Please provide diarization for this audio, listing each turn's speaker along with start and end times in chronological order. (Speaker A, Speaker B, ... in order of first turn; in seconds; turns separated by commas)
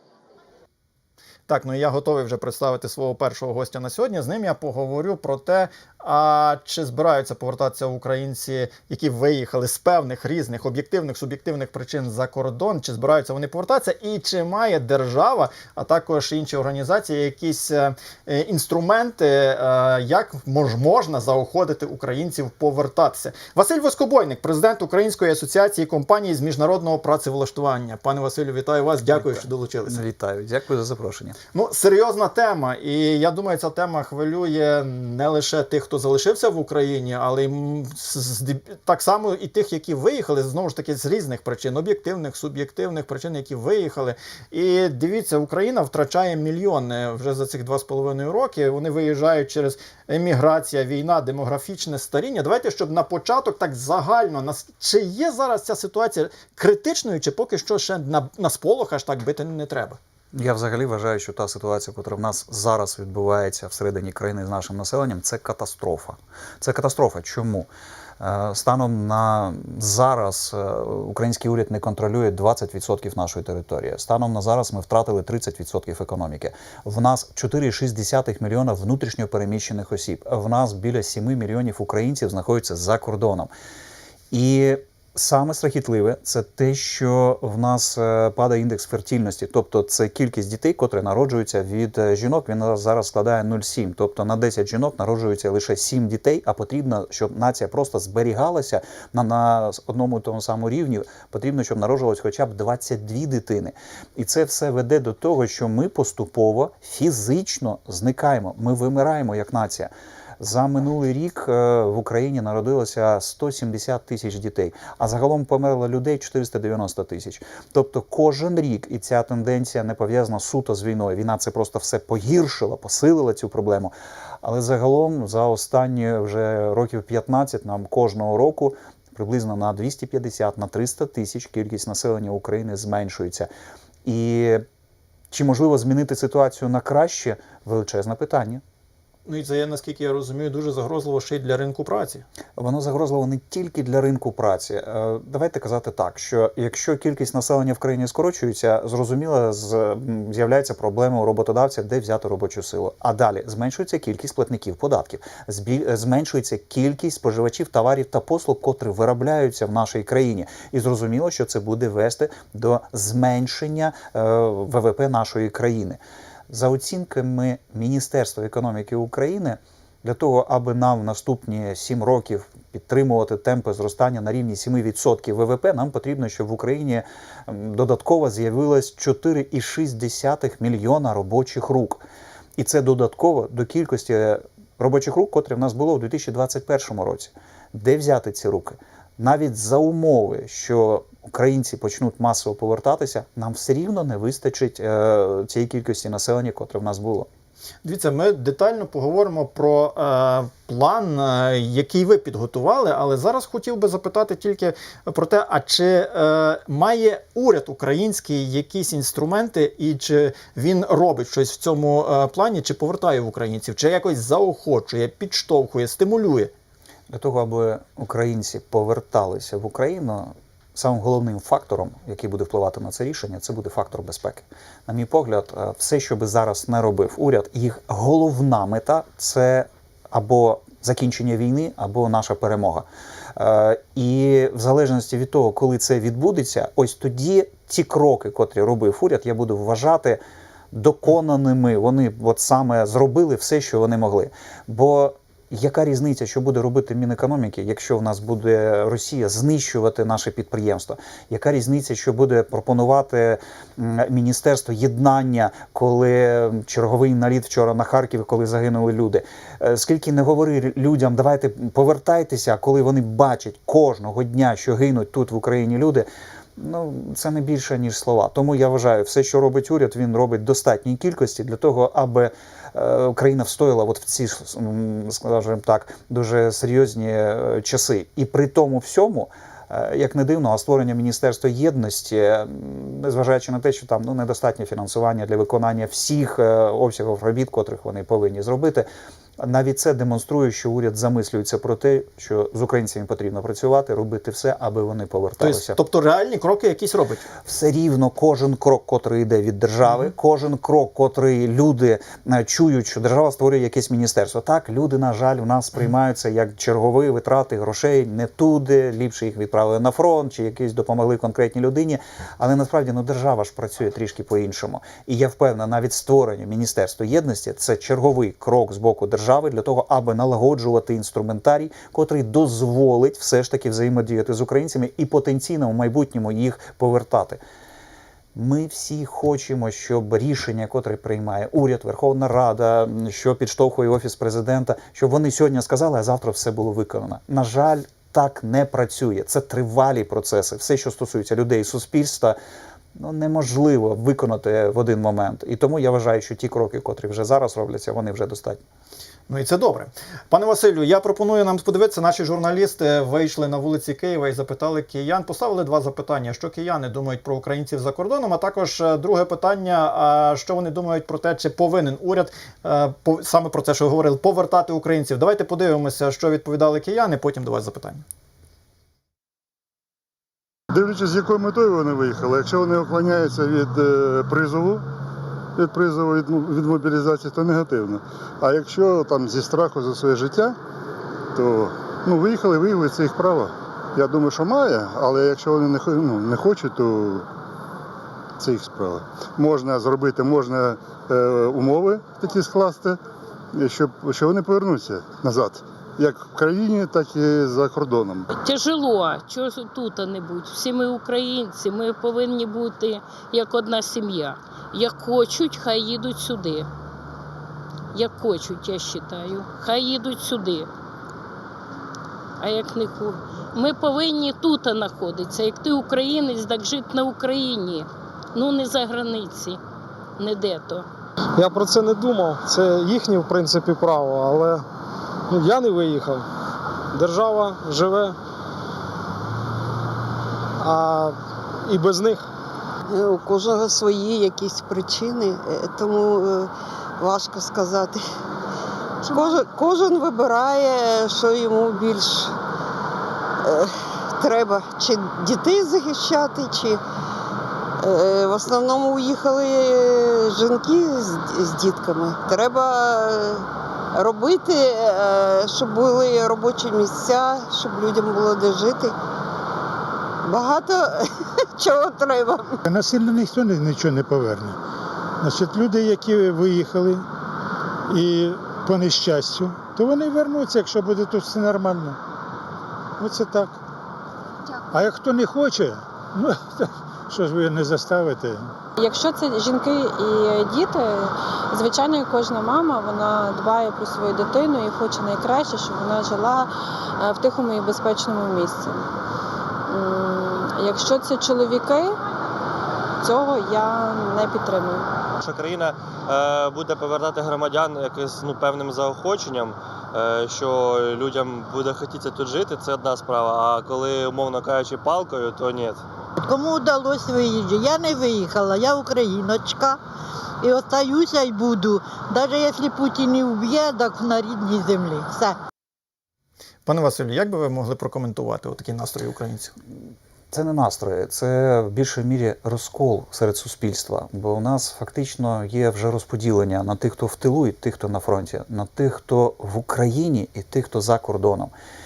Speaker A: 1.5-30.0, Speaker B: 29.1-31.4, Speaker A: 31.5-60.0, Speaker B: 60.3-67.7, Speaker B: 68.2-83.5, Speaker B: 84.3-133.5, Speaker B: 134.0-134.6, Speaker B: 135.3-138.6, Speaker A: 139.2-142.2, Speaker B: 142.6-182.0, Speaker B: 182.6-197.3, Speaker A: 197.8-216.5, Speaker B: 217.1-295.8, Speaker A: 295.4-297.2, Speaker B: 297.4-327.4, Speaker B: 328.3-342.4, Speaker B: 342.9-348.6, Speaker A: 349.3-368.0, Speaker C: 370.7-374.8, Speaker C: 375.6-380.6, Speaker C: 381.3-387.2, Speaker C: 388.4-393.0, Speaker C: 393.5-398.3, Speaker D: 398.4-406.7, Speaker D: 407.9-410.7, Speaker D: 412.4-419.6, Speaker D: 420.2-420.9, Speaker E: 421.4-424.6, Speaker E: 425.3-426.3, Speaker E: 426.9-428.2, Speaker E: 430.6-432.3, Speaker F: 432.9-438.0, Speaker F: 439.1-442.3, Speaker F: 443.4-446.8, Speaker F: 447.8-458.9, Speaker F: 460.2-462.6, Speaker G: 462.6-464.6, Speaker G: 465.2-467.1, Speaker G: 467.9-472.0, Speaker G: 473.0-473.6, Speaker G: 474.7-478.5, Speaker H: 478.8-488.8, Speaker H: 489.7-492.0, Speaker H: 493.0-494.9, Speaker I: 495.2-505.8, Speaker J: 506.2-509.8, Speaker J: 510.4-515.4, Speaker A: 516.6-519.5, Speaker B: 520.3-531.5